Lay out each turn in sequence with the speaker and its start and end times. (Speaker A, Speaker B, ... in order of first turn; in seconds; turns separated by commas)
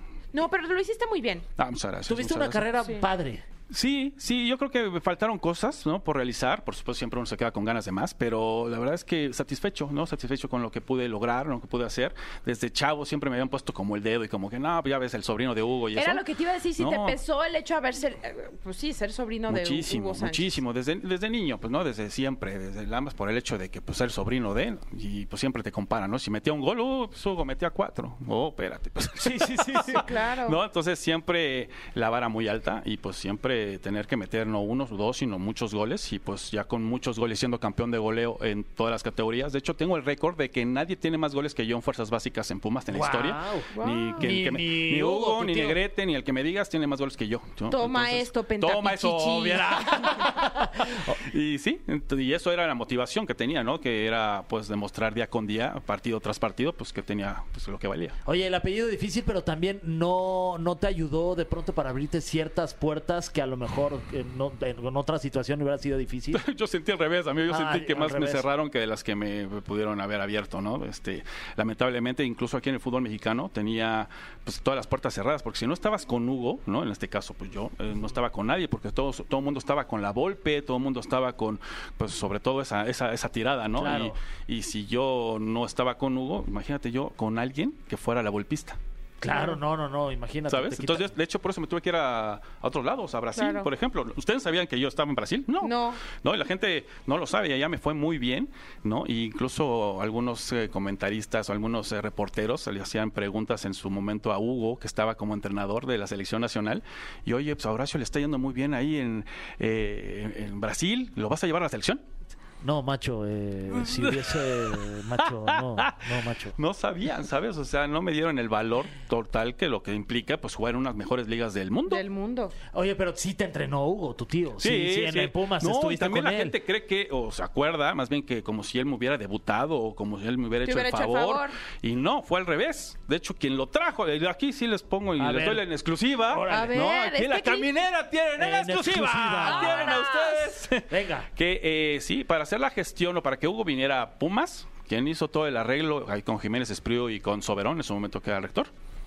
Speaker A: 0.3-1.4, Speaker B: 1.6-2.7, Speaker C: 2.1-3.4, Speaker B: 3.7-16.2, Speaker A: 15.9-20.6, Speaker B: 16.8-17.2, Speaker B: 19.5-58.1, Speaker C: 29.2-30.1, Speaker A: 29.9-30.6, Speaker C: 42.9-45.8, Speaker A: 43.7-44.3, Speaker A: 47.7-50.3, Speaker C: 50.2-51.1, Speaker C: 58.2-66.4, Speaker B: 66.3-88.8, Speaker C: 67.5-68.4, Speaker C: 83.8-84.2, Speaker C: 89.2-91.1, Speaker A: 89.3-89.6, Speaker B: 90.5-112.0, Speaker A: 93.3-93.7, Speaker A: 95.6-96.0, Speaker C: 112.6-116.6, Speaker B: 113.8-122.0, Speaker A: 121.9-122.5, Speaker C: 122.7-126.5, Speaker B: 124.6-148.7, Speaker A: 130.6-131.6, Speaker C: 135.2-135.6, Speaker C: 136.2-136.8, Speaker A: 136.5-137.7, Speaker C: 138.4-140.0, Speaker A: 139.4-140.6, Speaker C: 140.9-141.3